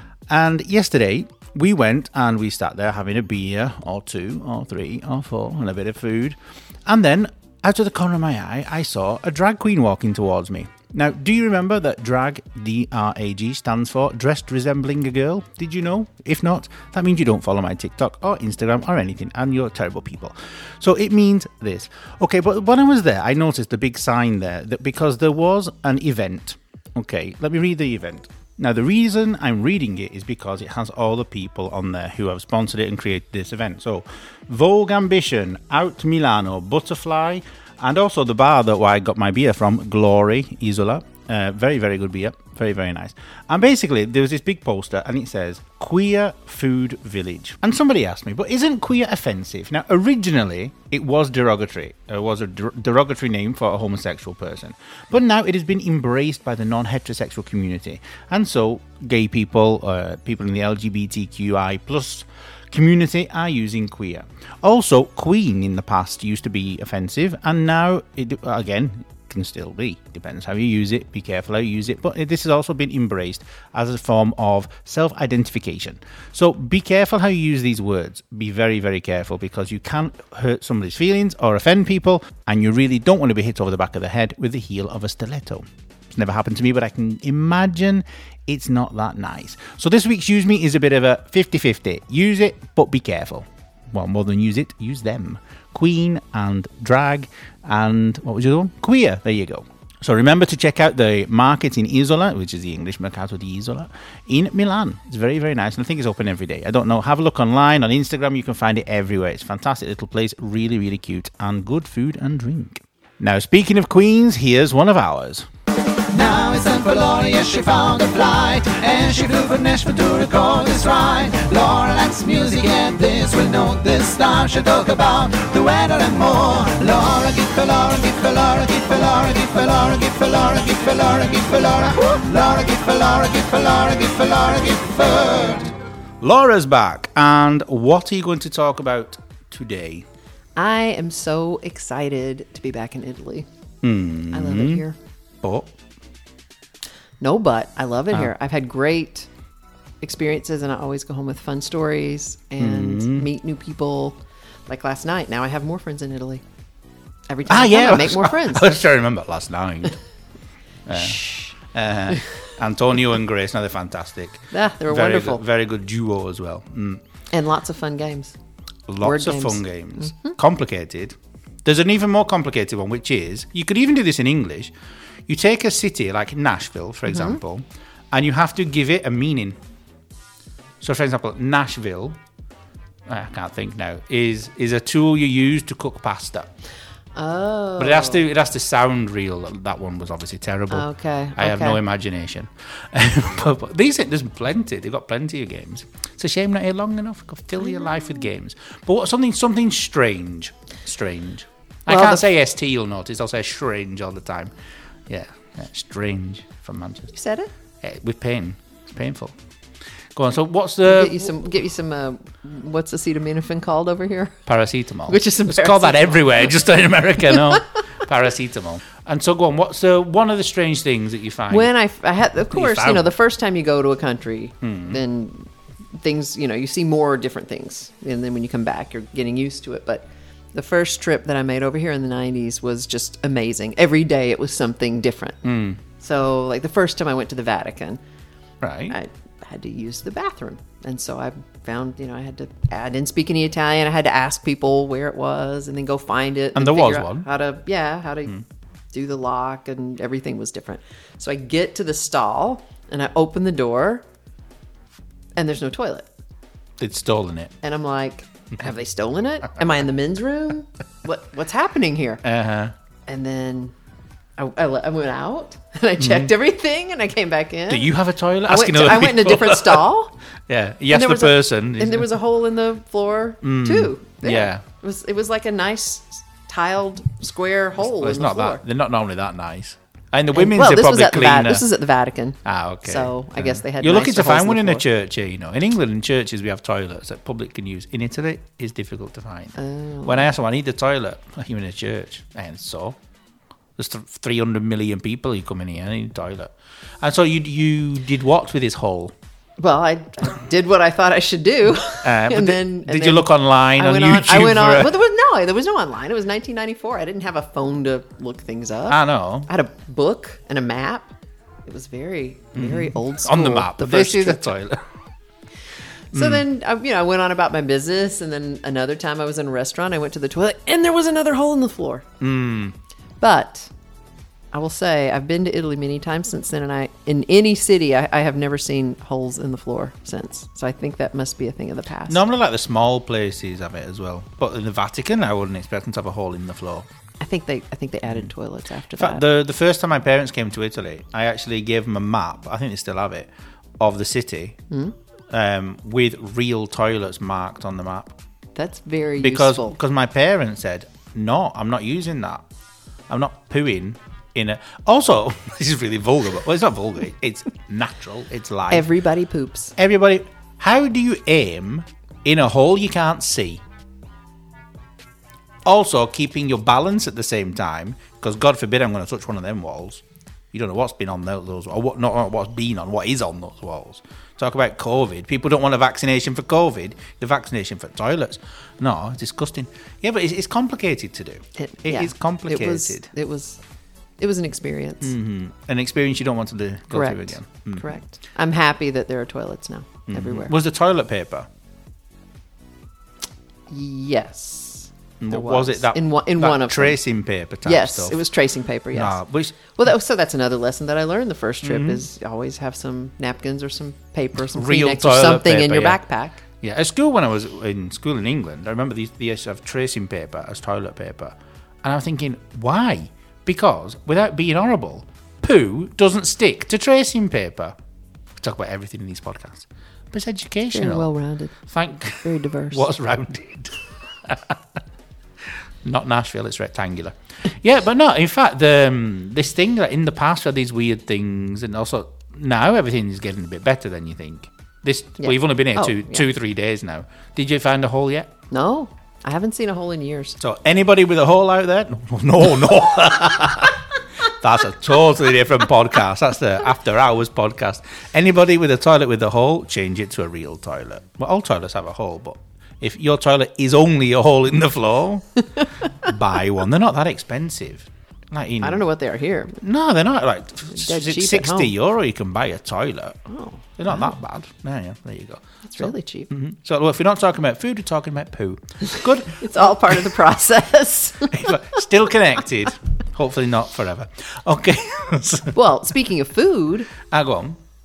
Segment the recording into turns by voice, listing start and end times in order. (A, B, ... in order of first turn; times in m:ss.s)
0:00.3-1:55.5 A
1:56.1-2:15.7 B
2:16.2-2:20.1 A
2:20.6-2:23.5 C
2:23.8-2:24.8 A
2:24.3-2:25.0 C
2:25.4-2:25.7 A
2:27.2-2:29.3 C
2:30.0-2:36.4 C
2:32.6-2:33.3 A
2:37.3-2:38.7 C
2:37.5-2:40.0 A
2:40.9-2:47.0 A
2:40.9-2:41.5 C
2:44.5-2:45.4 C
2:47.3-2:48.4 C
2:48.9-2:54.7 A
2:49.0-2:50.4 C
2:55.3-2:59.6 A
2:57.1-2:57.4 C
3:00.8-3:02.2 A
3:03.1-3:06.5 A
3:07.2-3:08.2 C
3:07.8-3:24.5 A
3:10.7-3:11.8 C
3:17.8-3:18.1 C
3:21.9-3:22.2 C
3:25.1-3:27.1 A
3:27.1-3:27.5 C
3:27.8-3:29.4 A
3:30.2-3:31.3 A
3:30.9-3:34.5 C
3:34.5-3:41.7 A
3:35.1-3:36.5 C
3:37.3-3:37.6 C
3:41.5-3:55.4 C
3:42.5-3:43.1 A
3:44.6-3:45.0 A
3:55.4-3:55.8 A
3:56.0-3:58.0 C
3:58.6-3:59.0 A
3:58.9-4:08.4 C
4:06.6-4:07.2 A
4:08.9-4:14.0 C
4:15.4-4:16.1 C
4:16.8-4:17.6 A
4:17.6-4:22.2 C
4:22.2-4:22.7 A
4:23.1-4:23.7 C
4:24.4-4:27.9 C
4:26.0-4:26.3 A
4:27.7-4:29.8 A
4:28.4-4:30.1 C
4:30.5-4:32.1 A
4:30.9-4:38.6 C
4:33.4-4:34.6 A
4:37.8-4:41.7 A
4:40.3-4:44.8 C
4:42.4-4:53.0 A
4:49.6-4:50.3 C
4:53.8-4:59.1 A
4:59.6-5:11.1 C
5:02.0-5:04.9 A
5:08.9-5:09.5 A
5:11.7-5:14.6 C
5:12.6-5:14.8 A
5:16.1-5:22.0 C
5:16.1-5:16.4 A
5:22.2-5:22.8 A
5:23.2-5:23.7 C
5:24.5-5:32.2 C
5:32.1-5:36.9 A
5:37.2-5:39.2 C
5:39.0-5:44.6 A
5:45.3-5:48.2 A
5:48.6-5:49.8 C
5:49.2-5:52.4 A
5:53.1-5:58.9 A
5:58.7-5:59.7 C
5:59.8-6:03.6 A
6:05.7-6:23.1 A
6:21.6-6:23.6 C
6:24.2-6:25.1 C
6:25.0-6:27.9 A
6:26.9-6:30.5 C
6:30.1-6:31.5 A
6:33.7-6:37.0 C
6:35.2-6:38.2 A
6:37.6-6:46.4 C
6:38.9-6:39.6 A
6:41.6-6:42.0 A
6:44.5-6:57.8 A
6:58.4-7:01.1 A
7:00.7-7:01.6 C
7:01.6-7:04.6 A
7:02.2-7:02.9 C
7:05.8-7:18.3 A
7:15.2-7:16.2 C
7:18.5-7:20.4 C
7:20.4-7:38.8 A
7:38.6-7:39.6 C
7:39.6-7:50.0 A
7:40.7-7:41.7 C
7:43.3-7:44.1 C
7:45.7-7:46.3 C
7:49.3-7:51.8 C
7:51.3-7:55.6 A
7:55.6-7:56.9 C
7:57.0-7:57.6 A